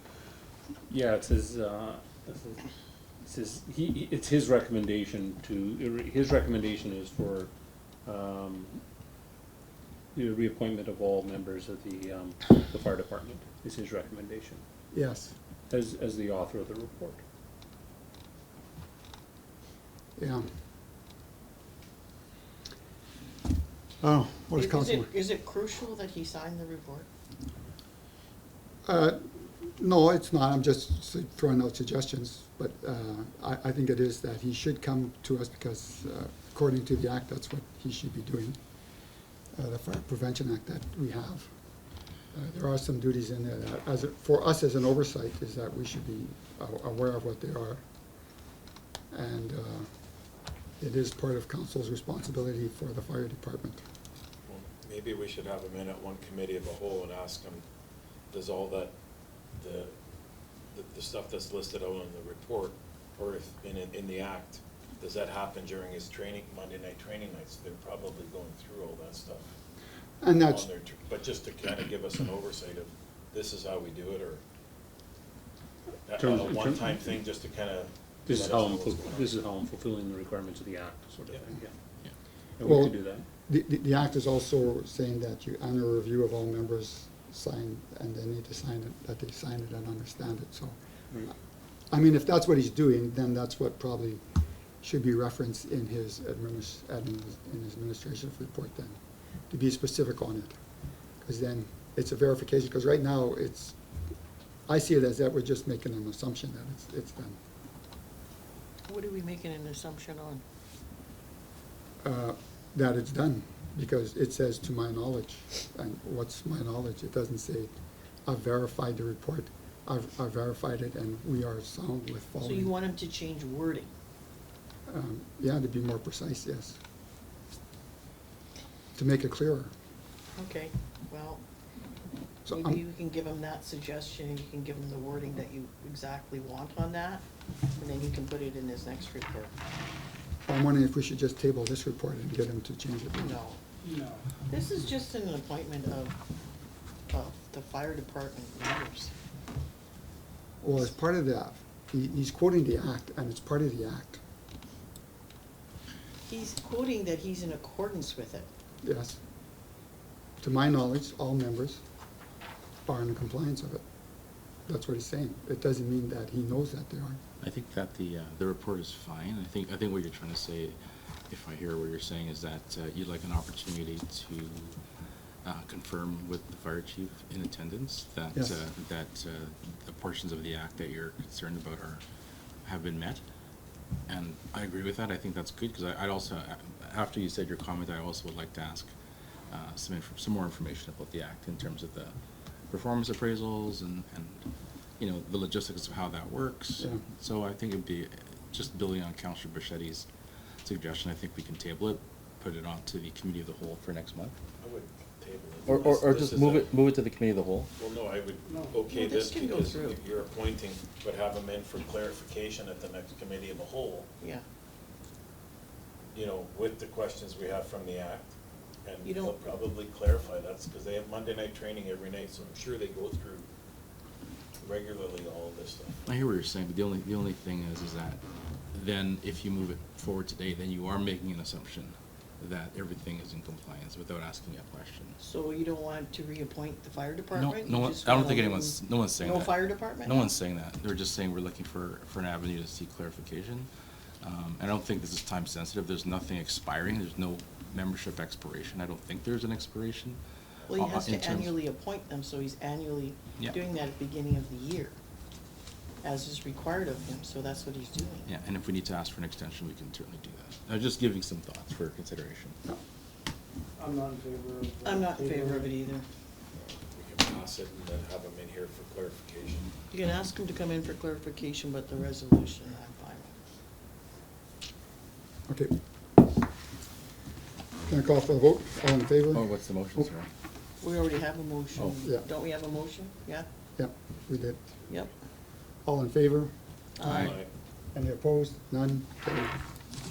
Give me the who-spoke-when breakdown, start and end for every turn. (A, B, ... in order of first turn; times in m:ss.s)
0:00.9-0:02.7 A
0:03.2-0:07.5 A
0:08.0-0:08.8 A
0:10.1-0:14.6 A
0:14.9-0:15.3 B
0:15.7-0:17.2 A
0:20.2-0:20.5 B
0:24.0-0:25.1 B
0:24.6-0:27.1 C
0:28.8-0:38.6 B
0:39.5-0:41.5 B
0:42.3-0:47.8 B
0:49.1-0:49.9 B
0:50.8-0:53.8 B
0:54.5-0:57.6 D
0:58.3-0:58.9 D
0:59.6-0:59.9 D
1:00.7-1:09.5 D
1:10.2-1:10.7 B
1:10.4-1:14.4 D
1:16.0-1:19.3 D
1:16.2-1:17.2 A
1:18.2-1:21.7 A
1:22.6-1:23.3 A
1:22.6-1:23.0 B
1:23.5-1:30.8 B
1:31.9-1:34.2 B
1:34.8-1:40.6 B
1:41.2-1:43.8 B
1:44.7-1:47.4 B
1:48.9-1:50.4 C
1:52.0-1:57.8 B
1:58.2-2:02.7 B
2:02.4-2:03.9 C
2:04.9-2:06.8 B
2:09.0-2:09.7 B
2:10.4-2:11.4 C
2:12.5-2:12.8 B
2:12.5-2:17.2 C
2:17.8-2:19.5 C
2:20.5-2:23.4 B
2:23.2-2:23.6 C
2:23.8-2:24.2 E
2:24.5-2:26.2 C
2:27.1-2:29.1 C
2:30.6-2:34.2 B
2:36.3-2:38.5 C
2:38.8-2:39.2 B
2:40.4-2:41.8 B
2:42.8-2:43.8 B
2:44.7-2:47.2 B
2:47.4-2:50.8 F
2:51.3-2:54.8 F
2:55.4-3:02.0 F
3:02.6-3:03.2 F
3:04.1-3:08.9 F
3:09.5-3:12.2 F
3:12.7-3:14.5 F
3:15.0-3:20.1 F
3:20.6-3:24.4 F
3:24.6-3:26.7 D
3:25.7-3:27.7 F
3:27.8-3:34.1 D
3:28.4-3:28.8 E
3:28.9-3:30.0 C
3:36.1-3:38.3 D
3:38.8-3:43.5 D
3:39.0-3:39.4 C
3:44.6-3:46.1 D
3:46.1-3:48.2 F
3:48.7-3:55.2 F
3:55.2-4:00.2 C
3:57.3-4:03.7 F
4:04.2-4:10.2 F
4:10.7-4:15.0 C
4:10.7-4:11.5 F
4:16.0-4:18.3 C
4:18.2-4:22.6 F
4:23.8-4:25.7 E
4:24.8-4:26.0 C
4:26.7-4:29.7 D
4:29.9-4:33.4 C
4:35.5-4:35.7 B
4:37.8-4:39.4 B
4:39.3-4:40.3 F
4:40.8-4:43.4 C
4:43.8-4:44.6 B
4:45.8-4:46.5 B
4:47.0-4:47.4 C
4:47.0-4:47.3 F
4:47.1-4:47.5 D
4:47.9-4:49.6 B